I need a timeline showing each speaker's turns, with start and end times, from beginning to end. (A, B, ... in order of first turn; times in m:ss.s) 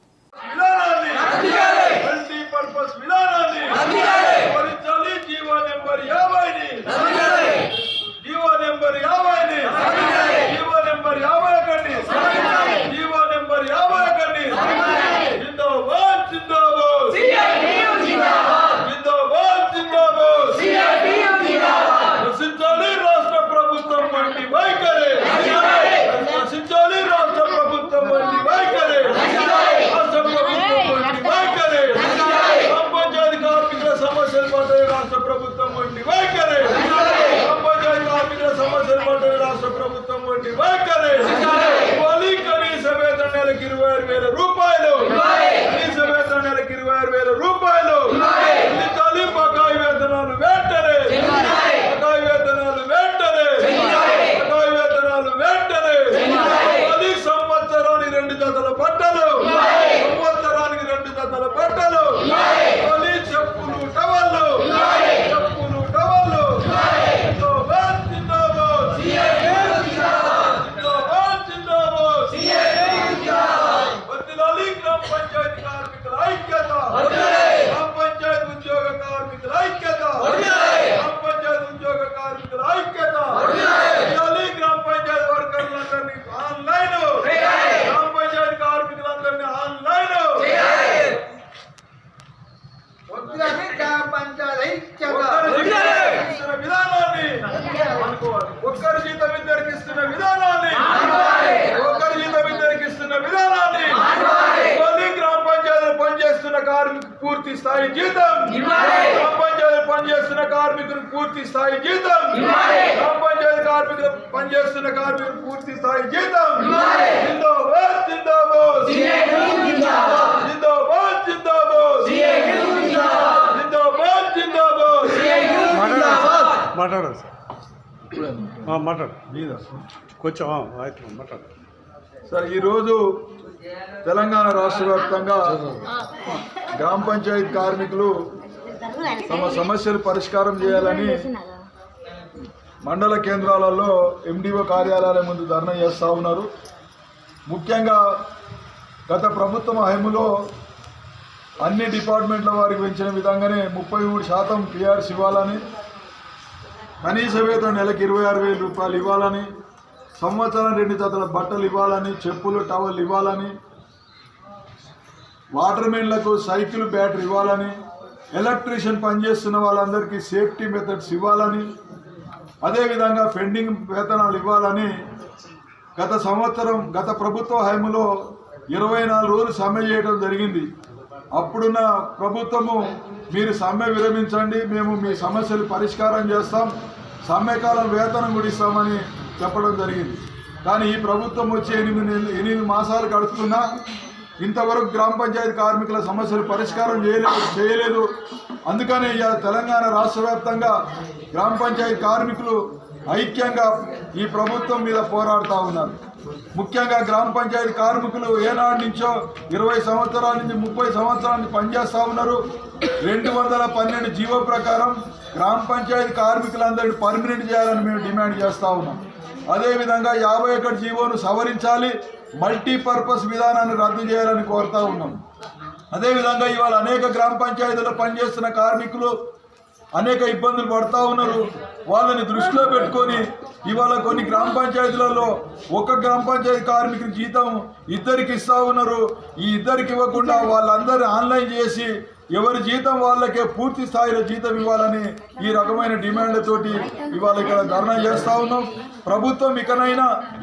0:00.5-0:07.5 A
0:08.2-1:31.1 A
1:33.1-1:33.5 A
1:33.2-1:35.2 B
1:35.0-2:05.7 A
2:05.7-2:07.3 C
2:08.7-2:09.2 C
2:09.3-2:09.7 A
2:10.2-2:11.4 C
2:12.3-2:13.0 A
2:14.0-2:15.7 A
2:16.7-2:18.1 A
2:18.7-2:19.4 B
2:19.2-2:21.3 A
2:20.7-2:21.7 B
2:22.8-2:26.5 A
2:27.5-2:28.0 A
2:29.1-2:30.3 A
2:31.6-2:35.6 A
2:37.0-2:39.5 A
2:40.2-2:43.5 A
2:45.5-2:47.7 A
2:48.3-2:51.7 A
2:52.6-2:54.9 A
2:56.0-2:58.1 A
2:58.7-3:00.6 A
3:01.4-3:06.7 A
3:07.3-3:13.6 A
3:14.4-3:18.1 A
3:18.7-3:20.8 A
3:21.3-3:26.0 A
3:26.6-3:32.4 A
3:33.0-3:45.2 A
3:45.9-3:49.2 A
3:50.0-4:10.1 A